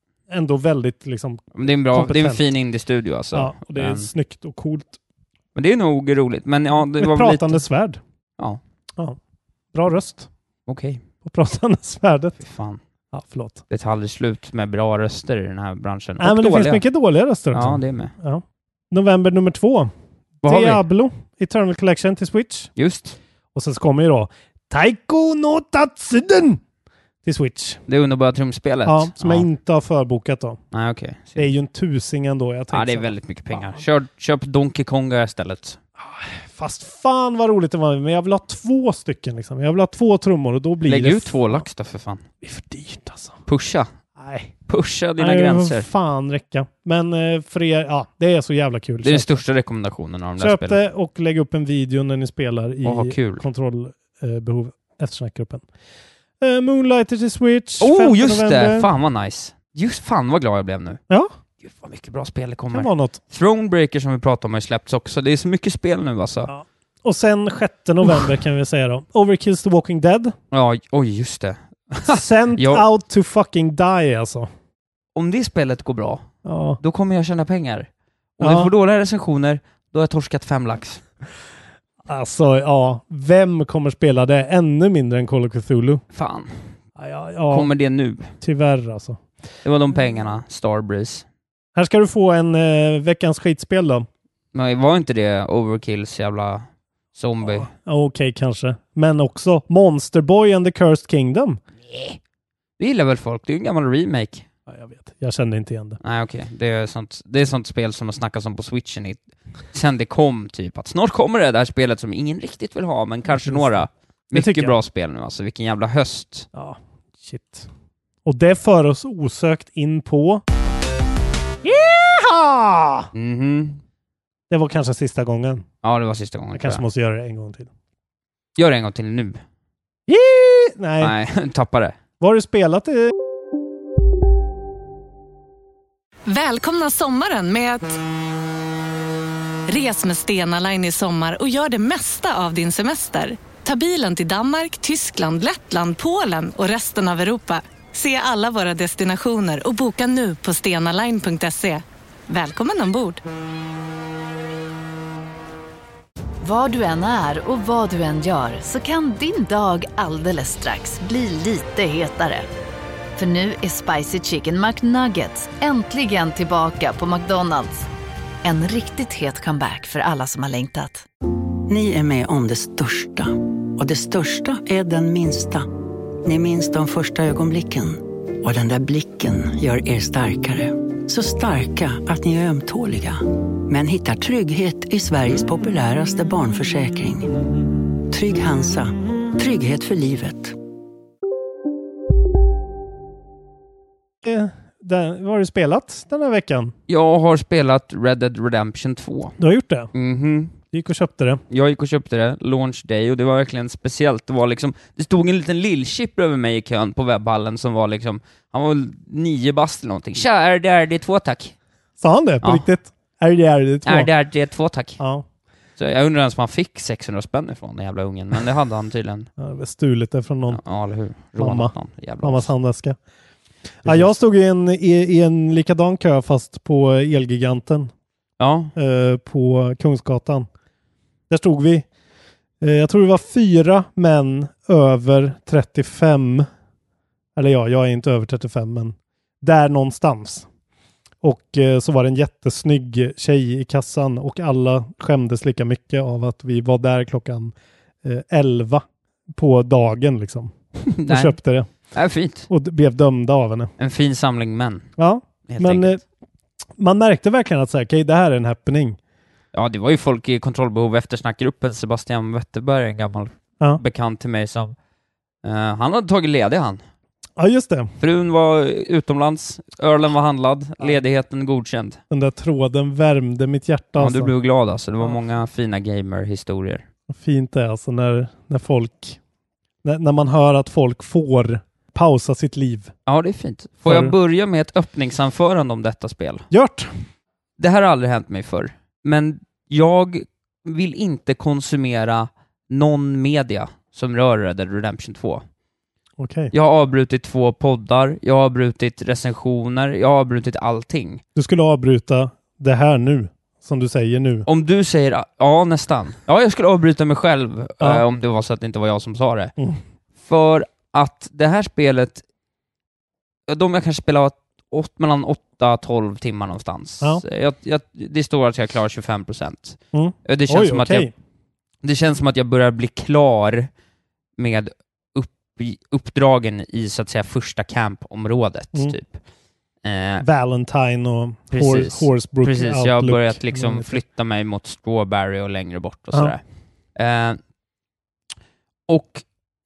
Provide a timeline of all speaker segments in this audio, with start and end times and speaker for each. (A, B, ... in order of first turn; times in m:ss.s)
0:00.3-0:02.4 A
0:01.5-0:04.1 B
0:03.3-0:05.0 A
0:05.6-0:07.6 B
0:06.9-0:08.0 A
0:09.7-0:10.3 A
0:10.7-0:11.0 B
0:11.2-0:12.4 A
0:12.4-0:12.8 B
0:13.1-0:13.6 A
0:13.7-0:16.8 B
0:16.2-0:19.9 A
0:17.5-0:18.1 B
0:20.4-0:20.8 B
0:20.4-0:22.7 A
0:22.8-0:23.2 B
0:23.6-0:26.6 A
0:27.2-0:27.8 A
0:27.9-0:29.5 B
0:28.8-0:30.6 A
0:30.7-0:31.5 B
0:31.4-0:33.8 A
0:32.7-0:35.8 B
0:36.0-0:41.4 A
0:40.8-0:42.3 B
0:42.4-0:43.4 A
0:43.5-0:43.9 B
0:44.2-0:44.5 A
0:44.7-0:45.9 B
0:45.2-0:49.3 A
0:49.0-0:50.8 B
0:50.4-0:55.6 A
0:52.8-0:53.4 B
0:56.4-0:58.9 A
0:57.8-1:01.0 B
1:01.6-1:06.5 B
1:02.7-1:03.2 A
1:06.5-1:10.4 A
1:10.5-1:12.8 B
1:12.1-1:14.5 A
1:15.2-1:16.3 B
1:16.4-1:16.8 A
1:16.8-1:17.9 B
1:18.4-1:21.0 B
1:18.4-1:18.7 A
1:22.1-1:26.0 A
1:26.1-1:26.6 B
1:27.0-1:27.7 A
1:27.5-1:28.3 B
1:28.4-1:29.2 A
1:29.6-1:31.2 B
1:31.8-1:34.1 A
1:34.5-1:37.7 B
1:37.4-1:41.6 A
1:41.9-1:42.2 B
1:42.8-1:44.5 B
1:44.7-1:46.0 A
1:46.0-1:56.5 B
1:53.3-1:53.8 A
1:54.3-1:54.8 A
1:56.5-1:57.7 A
1:58.3-2:00.4 A
2:01.6-2:03.1 A
2:03.1-2:03.8 B
2:04.5-2:05.7 A
2:05.8-2:06.8 B
2:06.5-2:07.7 A
2:08.6-2:09.4 B
2:10.1-2:11.1 A
2:11.0-2:12.0 B
2:12.2-2:13.1 A
2:16.3-2:18.0 C
2:19.7-2:33.2 C
2:36.4-2:42.5 D
2:43.2-2:47.9 D
2:48.4-2:51.0 D
2:51.7-2:55.7 E
2:56.2-3:07.3 E
3:08.1-3:10.6 E
3:14.2-3:16.8 A
3:16.9-3:19.4 B
3:19.4-3:19.9 A
3:19.9-3:20.6 B
3:20.7-3:21.4 A
3:21.5-3:31.6 B
3:32.0-3:34.1 A
3:33.8-3:35.0 B
3:35.0-3:35.2 A
3:35.8-3:39.3 B
3:39.4-3:40.6 A
3:40.5-3:42.5 B
3:41.4-3:43.0 A
3:43.8-3:44.1 B
3:43.8-3:47.9 A
3:48.4-3:48.7 B
3:48.8-3:50.5 A
3:51.3-3:51.9 A
3:52.6-3:56.5 A
3:57.4-4:00.5 A
4:01.2-4:10.5 A
4:10.9-4:11.4 B
4:11.0-4:11.7 A
4:11.9-4:12.5 B
4:12.5-4:13.7 A
4:13.8-4:14.9 B
4:15.0-4:16.0 A
4:15.5-4:16.0 B
4:16.8-4:19.0 A
4:19.5-4:24.8 B
4:25.4-4:26.8 B
4:27.4-4:27.9 A
4:28.0-4:32.0 B
4:32.1-4:34.3 A
4:34.0-4:36.8 B
4:37.1-4:39.2 A
4:39.8-4:42.9 A
4:43.1-4:46.5 B
4:43.9-4:44.1 A
4:46.5-4:46.9 A
4:47.6-4:55.4 B
4:56.2-4:56.5 A
4:56.5-5:01.2 B
5:01.4-5:04.5 A
5:04.5-5:09.5 B
5:10.2-5:12.2 B
5:13.5-5:21.1 B
5:19.9-5:21.1 A
5:21.8-5:23.7 B
5:24.4-5:29.2 B
5:29.8-5:30.2 B
5:30.2-5:34.0 A
5:31.5-5:36.4 B
5:37.0-5:37.4 B
5:38.9-5:39.2 B